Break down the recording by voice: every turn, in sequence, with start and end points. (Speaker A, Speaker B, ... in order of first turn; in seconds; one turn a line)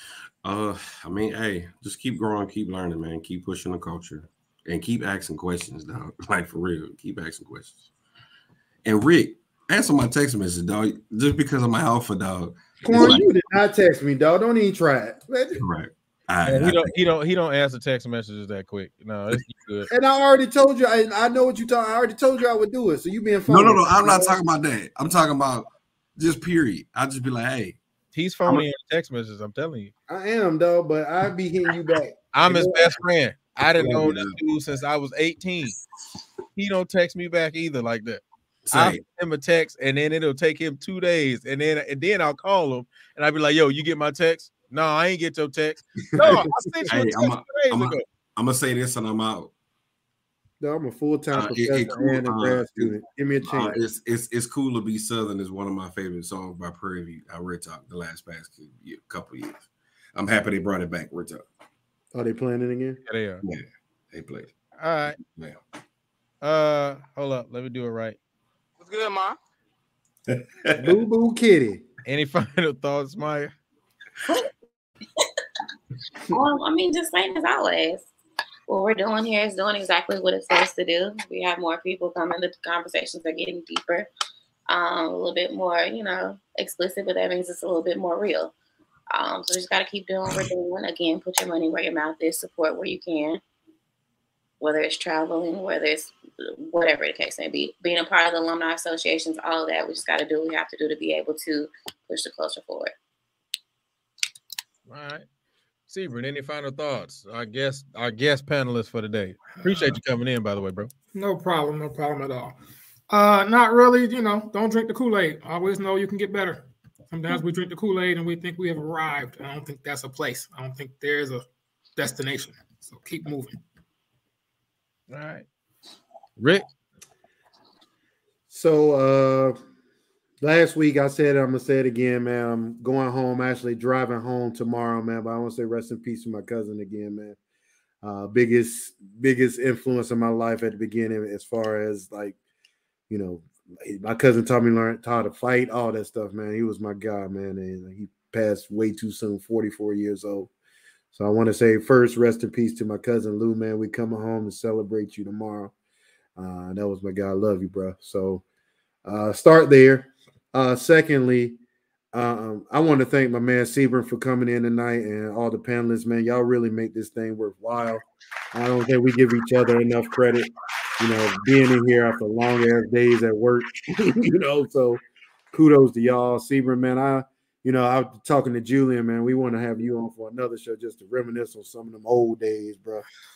Speaker A: 0.4-7.8
Speaker A: 8.8-13.3
Speaker B: 12.8-15.6
Speaker A: 15.6-16.9
Speaker C: 16.4-19.9
Speaker B: 19.9-24.4
Speaker A: 23.5-27.8
Speaker C: 28.1-29.9
Speaker B: 30.1-32.9
Speaker C: 32.3-35.8
Speaker A: 33.8-34.4
Speaker C: 36.5-48.0
Speaker A: 38.6-39.0
Speaker B: 46.1-46.5
Speaker A: 46.9-49.5
Speaker B: 50.6-53.8
Speaker A: 51.3-61.5
Speaker B: 62.1-63.0
Speaker C: 63.1-63.4
Speaker A: 63.4-64.5
Speaker C: 64.8-65.2
Speaker A: 65.3-65.6
Speaker C: 66.4-68.2
Speaker A: 70.3-70.9
Speaker B: 70.7-71.8
Speaker C: 72.0-73.5
Speaker D: 76.3-78.0
Speaker D: 78.7-84.1
Speaker D: 84.7-88.5
Speaker D: 89.1-93.4
Speaker D: 94.6-102.9
Speaker C: 104.9-105.2
Speaker C: 105.9-110.9
Speaker E: 109.6-110.0
Speaker E: 111.1-112.5
Speaker E: 113.1-121.4
Speaker E: 122.0-123.6
Speaker C: 125.1-125.5
Speaker C: 126.4-126.6
Speaker B: 128.5-129.6
Speaker B: 130.4-137.4
Speaker B: 138.0-142.4
Speaker B: 143.1-150.5
Speaker B: 151.1-155.7
Speaker B: 156.3-158.4
Speaker B: 159.0-161.6
Speaker B: 162.1-183.0